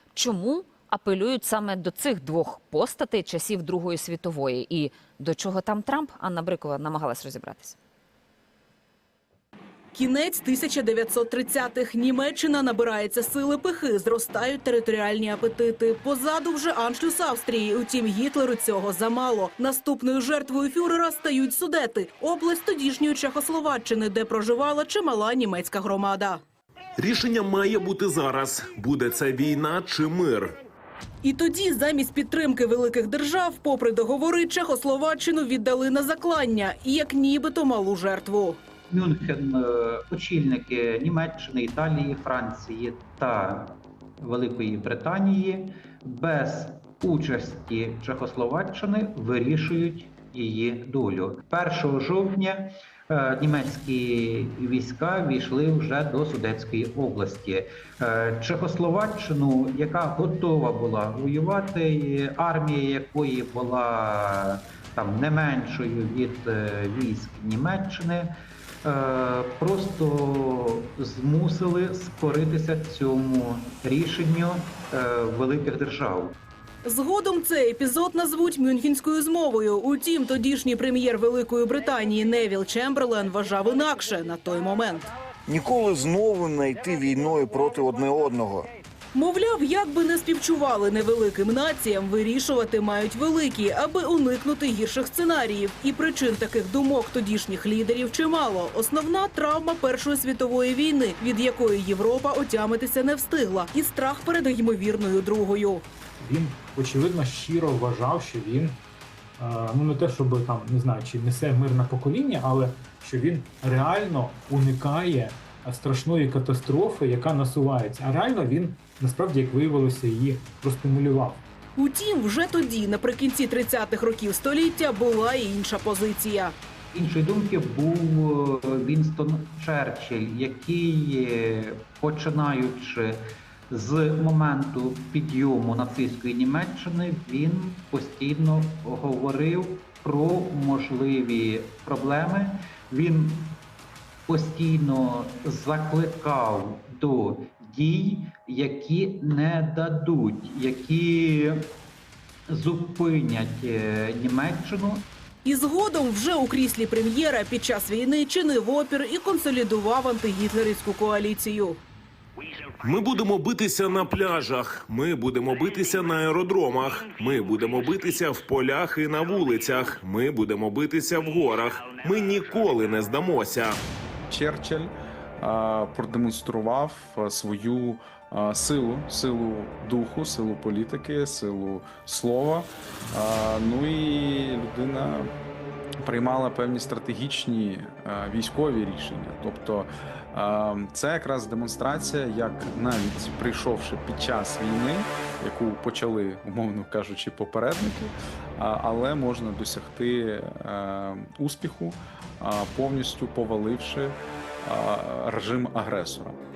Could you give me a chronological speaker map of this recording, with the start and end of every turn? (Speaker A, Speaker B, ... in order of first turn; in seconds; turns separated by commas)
Speaker A: 0.1-7.8, Speaker B: 9.9-26.4, Speaker C: 27.0-30.6, Speaker B: 31.2-38.6, Speaker D: 38.9-68.3, Speaker D: 68.8-76.3, Speaker B: 76.8-85.1, Speaker E: 85.5-88.7, Speaker B: 89.1-105.8, Speaker F: 106.2-108.8, Speaker F: 109.4-121.4, Speaker B: 121.8-126.5, Speaker D: 126.9-143.6, Speaker D: 144.3-151.7, Speaker D: 152.5-155.1, Speaker B: 155.4-161.8, Speaker C: 162.8-173.8, Speaker G: 174.3-185.3, Speaker G: 186.0-206.3